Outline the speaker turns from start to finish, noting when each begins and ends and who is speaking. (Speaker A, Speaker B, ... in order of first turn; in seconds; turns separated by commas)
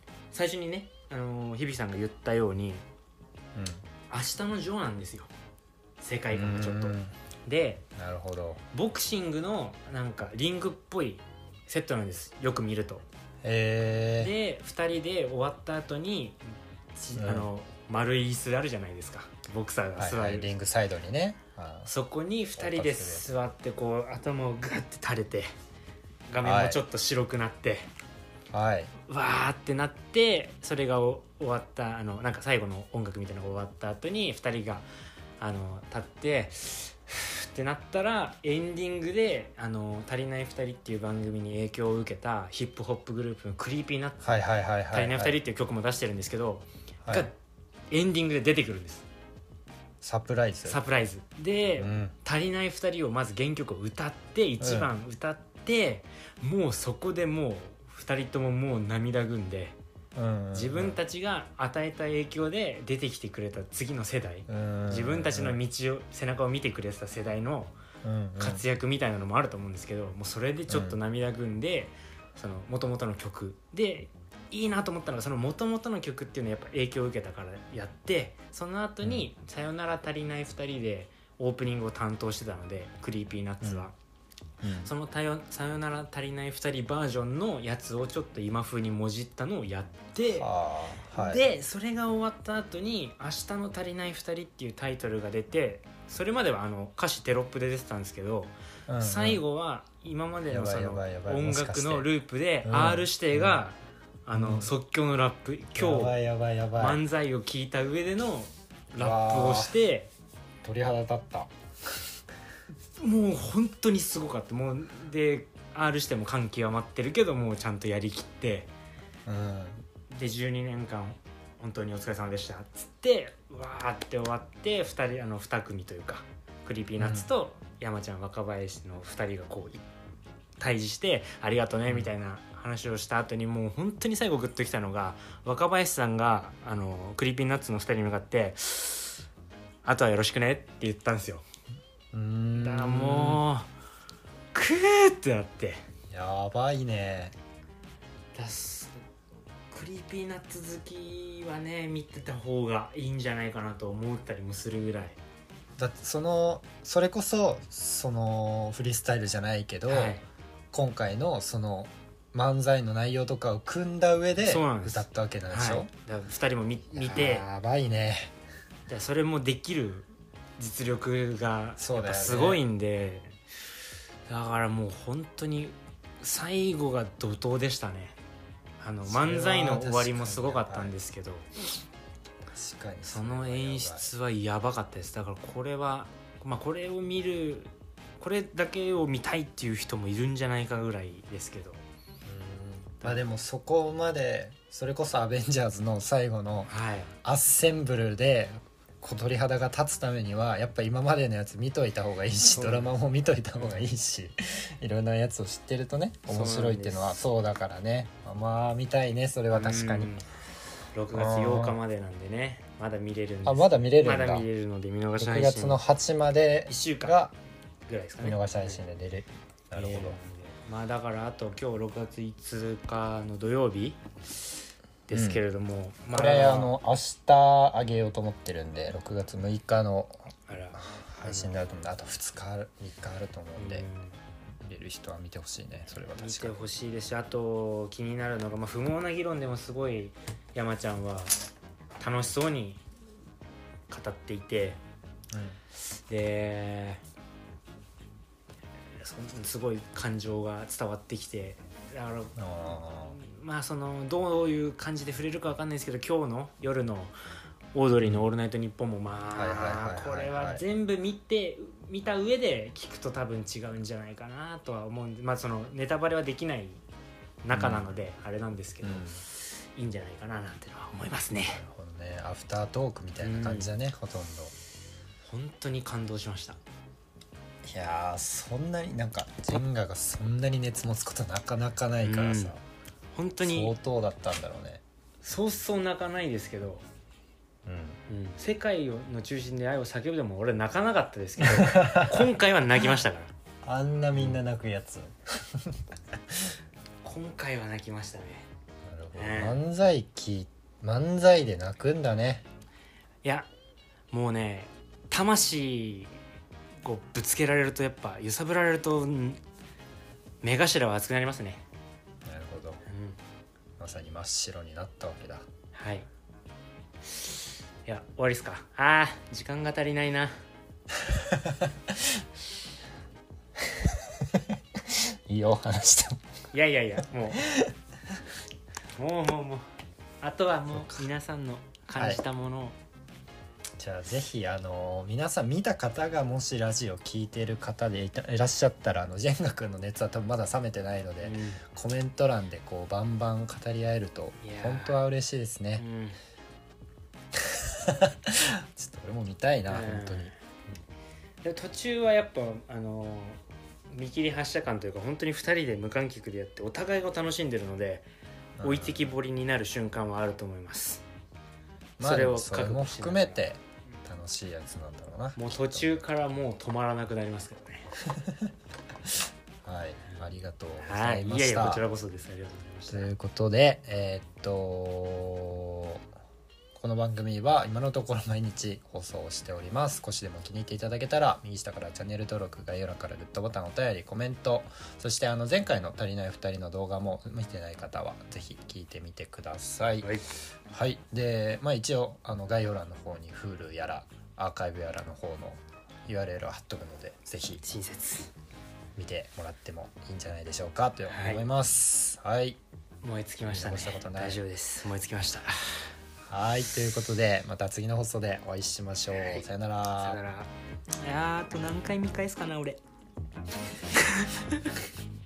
Speaker A: 0.3-2.8, Speaker B: 3.5-3.8, Speaker A: 4.1-5.3, Speaker A: 6.0-7.8, Speaker B: 6.3-7.1, Speaker B: 8.0-8.6, Speaker A: 8.7-13.0, Speaker B: 13.4-14.3, Speaker A: 14.2-16.4, Speaker A: 16.9-20.5, Speaker B: 17.1-17.5, Speaker B: 20.0-21.9, Speaker A: 21.8-25.5, Speaker B: 22.6-23.3, Speaker A: 26.3-27.9, Speaker B: 26.4-26.8, Speaker B: 28.5-28.9, Speaker A: 29.0-34.9, Speaker A: 35.4-47.3, Speaker B: 44.2-45.4, Speaker B: 47.0-47.3, Speaker A: 47.9-49.0, Speaker B: 50.0-50.8, Speaker A: 50.6-59.8, Speaker B: 51.8-52.1, Speaker B: 54.6-54.9, Speaker B: 60.1-61.0, Speaker A: 60.5-67.8, Speaker B: 64.5-65.6, Speaker B: 68.0-68.6, Speaker A: 68.4-83.9, Speaker B: 70.7-71.0, Speaker B: 83.6-83.9, Speaker B: 84.6-84.9, Speaker A: 84.8-90.5, Speaker B: 90.3-91.4, Speaker A: 91.1-106.2, Speaker B: 98.9-99.4, Speaker B: 100.5-102.1, Speaker B: 102.6-103.6, Speaker B: 104.3-104.7, Speaker B: 105.8-107.0, Speaker A: 106.8-110.1, Speaker B: 109.0-109.8, Speaker B: 110.6-111.5, Speaker A: 113.0-118.7, Speaker B: 119.2-119.8, Speaker A: 120.1-129.8, Speaker B: 127.0-127.3, Speaker A: 130.6-139.2, Speaker A: 139.8-141.4, Speaker B: 142.1-143.4, Speaker A: 142.5-143.7, Speaker A: 144.5-145.8, Speaker B: 146.1-147.3, Speaker A: 148.3-149.0, Speaker A: 149.7-155.2, Speaker B: 155.8-160.2, Speaker A: 159.9-160.2, Speaker B: 160.7-165.9, Speaker A: 164.4-167.4, Speaker B: 166.9-168.3, Speaker A: 168.9-173.3, Speaker B: 171.8-172.6, Speaker A: 174.3-178.2, Speaker A: 178.8-181.5, Speaker B: 179.0-180.9, Speaker B: 182.5-184.1, Speaker A: 183.0-191.8, Speaker B: 192.2-196.7, Speaker A: 196.7-197.1, Speaker B: 197.2-210.1, Speaker A: 202.4-203.0, Speaker A: 203.5-203.8, Speaker A: 206.3-207.2, Speaker A: 209.5-210.2, Speaker A: 210.9-215.8, Speaker B: 211.1-211.8, Speaker B: 213.4-214.5, Speaker B: 215.2-217.3, Speaker A: 216.7-217.2, Speaker A: 217.9-218.8, Speaker B: 218.2-220.2, Speaker A: 219.7-224.0, Speaker A: 225.1-226.8, Speaker B: 225.1-225.4, Speaker B: 226.1-233.9, Speaker A: 230.5-231.6, Speaker A: 233.6-234.2, Speaker B: 234.6-236.7, Speaker A: 236.2-241.4, Speaker A: 242.0-242.8, Speaker A: 243.9-244.8, Speaker B: 245.3-245.6, Speaker A: 246.1-247.0, Speaker A: 249.0-257.1, Speaker B: 252.4-253.2, Speaker A: 257.7-266.8, Speaker B: 258.0-258.3, Speaker B: 259.3-260.6, Speaker A: 267.4-271.6, Speaker B: 267.5-267.9, Speaker B: 268.8-269.2, Speaker B: 271.5-274.5, Speaker A: 273.2-273.7, Speaker A: 275.2-276.6, Speaker B: 277.6-282.6, Speaker A: 282.0-282.5, Speaker A: 283.1-283.8, Speaker B: 283.4-284.8, Speaker A: 285.2-286.8, Speaker B: 287.6-288.0, Speaker A: 288.1-293.3, Speaker B: 291.5-292.3, Speaker B: 293.6-295.8, Speaker A: 297.0-298.5, Speaker B: 298.8-302.4, Speaker A: 299.1-299.6, Speaker A: 304.1-306.2, Speaker A: 306.8-309.4, Speaker A: 310.4-311.6, Speaker B: 312.2-312.8, Speaker A: 312.9-313.2, Speaker B: 313.8-315.5, Speaker A: 315.7-316.1, Speaker A: 317.0-320.4, Speaker B: 321.2-321.9, Speaker B: 324.5-326.2, Speaker A: 326.5-327.4, Speaker B: 327.4-327.7, Speaker A: 329.0-329.7, Speaker A: 330.2-332.8, Speaker B: 330.7-331.1, Speaker B: 333.8-345.8, Speaker A: 341.2-341.6, Speaker A: 344.4-345.0, Speaker A: 345.8-346.2, Speaker B: 347.5-350.3, Speaker A: 349.7-350.4, Speaker A: 351.4-353.4, Speaker A: 353.9-358.1, Speaker B: 358.6-359.1, Speaker A: 358.6-361.0, Speaker B: 362.0-366.0, Speaker A: 362.0-363.4, Speaker A: 365.4-367.9, Speaker B: 368.1-368.5, Speaker B: 369.6-371.8, Speaker A: 370.8-373.1, Speaker B: 372.9-376.0, Speaker B: 376.7-390.1, Speaker A: 390.0-390.3, Speaker B: 390.7-397.6, Speaker A: 397.6-398.3, Speaker B: 398.9-402.6, Speaker A: 401.1-401.4, Speaker A: 403.0-405.9, Speaker B: 403.5-404.4, Speaker B: 406.3-410.2, Speaker A: 409.1-409.5, Speaker A: 410.0-410.5, Speaker A: 411.0-412.8, Speaker A: 413.9-414.7